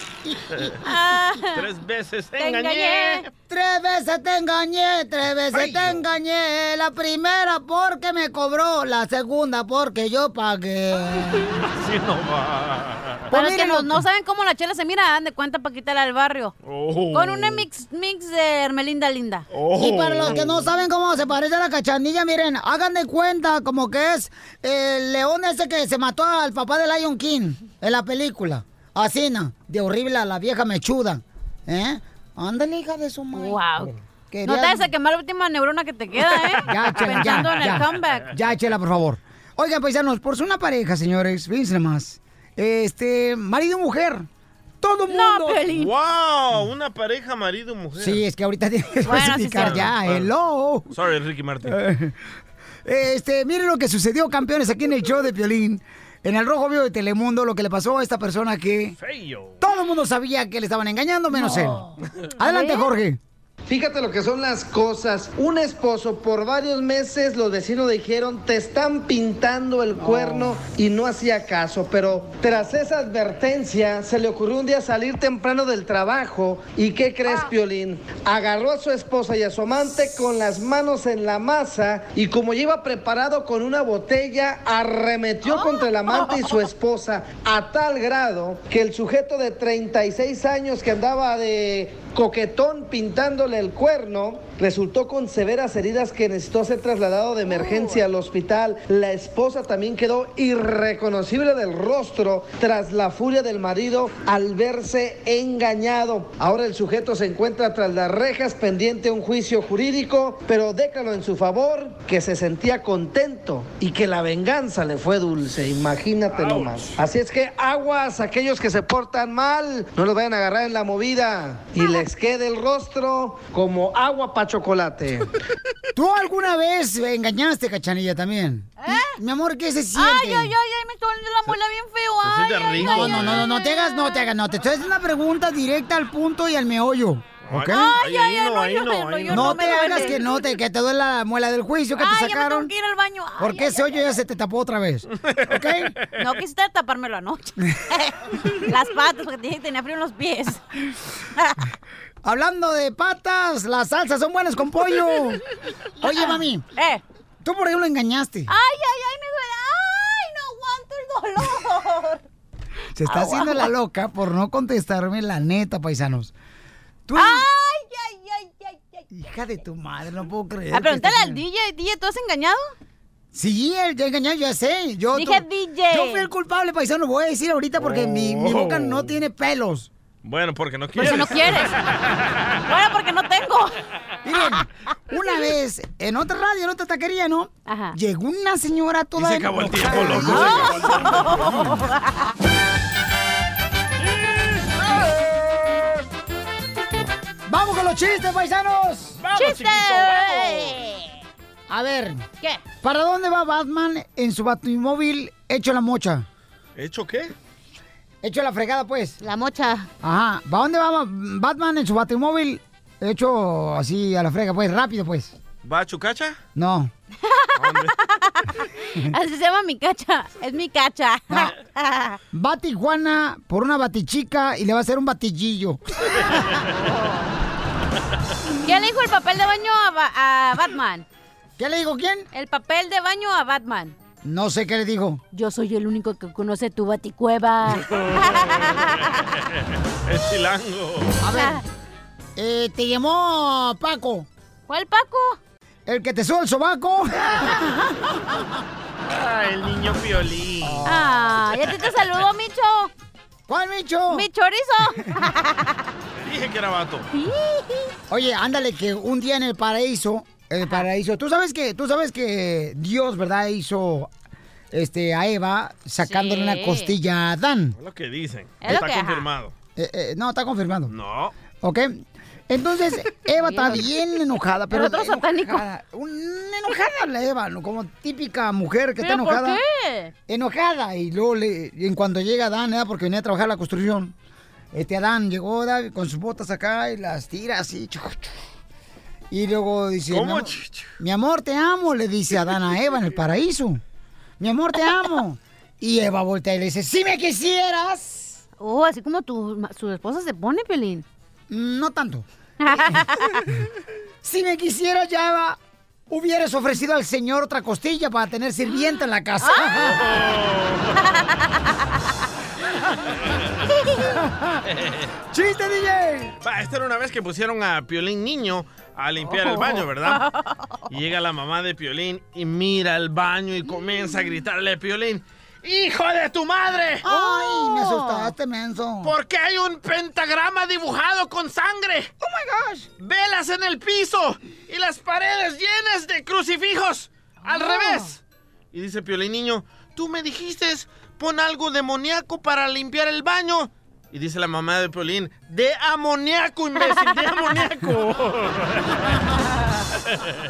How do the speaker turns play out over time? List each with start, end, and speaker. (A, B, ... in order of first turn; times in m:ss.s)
0:00.2-0:00.7 A
0:00.8-0:01.7 B
0:01.5-0:03.3 C
0:02.4-0:03.3 B
0:03.5-0:11.5 A
0:05.5-0:06.0 C
0:11.6-0:13.3 C
0:13.3-0:14.0 A
0:13.3-0:16.5 B
0:16.6-0:17.7 C
0:17.1-0:19.5 B
0:19.5-0:20.7 C
0:19.7-0:34.9 A
0:33.3-0:33.9 B
0:34.4-0:38.3 B
0:36.6-0:44.3 A
0:44.8-0:45.6 A
0:45.1-0:45.9 B
0:45.7-0:48.2 C
0:48.0-0:50.9 A
0:49.0-0:49.8 B
0:49.6-0:50.3 C
0:50.9-0:51.8 C
0:51.6-0:52.2 A
0:52.8-0:59.0 A
0:59.0-0:59.6 C
0:59.6-1:01.8 A
1:01.4-1:01.7 B
1:02.4-1:03.2 A
1:02.4-1:02.9 B
1:03.7-2:05.3 D
1:25.5-1:26.5 B
1:37.4-1:38.0 B
1:56.3-1:57.0 C
2:01.8-2:02.0 B
2:05.9-2:10.5 A
2:08.8-2:09.2 B
2:09.9-2:14.4 B
2:12.2-2:13.5 C
2:12.8-2:18.0 A
2:17.4-2:20.2 C
2:17.7-2:20.4 B
2:19.3-2:22.7 A
2:22.0-2:24.2 B
2:23.4-2:25.9 A
2:26.2-2:30.6 B
2:32.2-2:35.4 A
2:36.0-2:36.6 A
2:36.0-2:37.0 B
2:37.4-2:38.5 A
2:38.5-2:42.2 B
2:43.0-2:46.3 A
2:43.0-2:43.7 B
2:47.1-2:47.4 A
2:47.1-2:49.0 B
2:49.1-2:51.4 A
2:50.7-2:52.7 B
2:53.3-2:59.9 A
2:55.1-2:56.3 B
2:57.8-2:59.1 C
3:00.2-3:01.8 C
3:01.0-3:01.7 B
3:02.7-3:03.7 B
3:04.2-3:10.9 A
3:07.6-3:08.0 B
3:09.2-3:11.8 C
3:10.1-3:12.3 B
3:14.2-3:14.8 C
3:17.5-3:19.2 A
3:19.2-3:20.8 C
3:19.3-3:21.1 B
3:21.7-3:22.2 A
3:22.8-3:26.2 A
3:26.8-3:27.3 C
3:28.2-3:29.2 A
3:29.2-3:29.9 B
3:30.0-3:35.3 A
3:35.6-3:36.4 C
3:36.5-3:36.9 A
3:37.3-3:42.2 B
3:37.6-3:38.0 C
3:42.3-3:45.8 A
3:46.7-3:47.3 B
3:48.6-3:51.0 B
3:51.6-3:52.3 A
3:52.3-3:54.0 B
3:54.2-3:55.2 A
3:55.3-3:59.2 B
3:57.9-3:59.2 C
4:00.0-4:01.2 C
4:01.2-4:01.6 A
4:01.3-4:01.6 B
4:02.4-4:04.3 A
4:04.7-4:05.4 B
4:05.8-4:08.0 A
4:09.0-4:10.8 C
4:10.6-4:11.3 A
4:10.8-4:12.9 B
4:13.5-4:14.3 A
4:14.1-4:15.8 B
4:16.2-4:17.1 C
4:17.1-4:17.9 B
4:18.1-4:24.1 A
4:24.7-4:27.8 A
4:26.0-4:26.9 B
4:27.8-4:29.5 C
4:28.6-4:29.3 B
4:29.8-4:30.9 A
4:30.9-4:31.3 C
4:31.6-4:39.6 A
4:33.4-4:34.0 B
4:34.7-4:35.6 B
4:39.0-4:40.1 B
4:40.3-4:44.1 A
4:44.7-4:48.3 A
4:49.3-4:53.8 A
4:50.1-4:50.9 C
4:54.4-4:58.4 A
4:58.6-5:01.0 B
5:01.5-5:02.2 A
5:02.6-5:03.4 B
5:04.2-5:05.6 A
5:06.1-5:10.0 A
5:09.4-5:09.9 B
5:09.8-5:11.2 C
5:14.7-5:15.1 C
5:15.3-5:16.3 A
5:16.4-5:20.2 C
5:19.2-5:20.8 B
5:20.9-5:27.0 C
5:27.0-5:29.1 A
5:27.0-5:28.3 B
5:29.0-5:32.1 C
5:32.2-5:32.9 A
5:33.0-5:38.2 C
5:37.4-5:38.1 B
5:38.7-5:48.9 C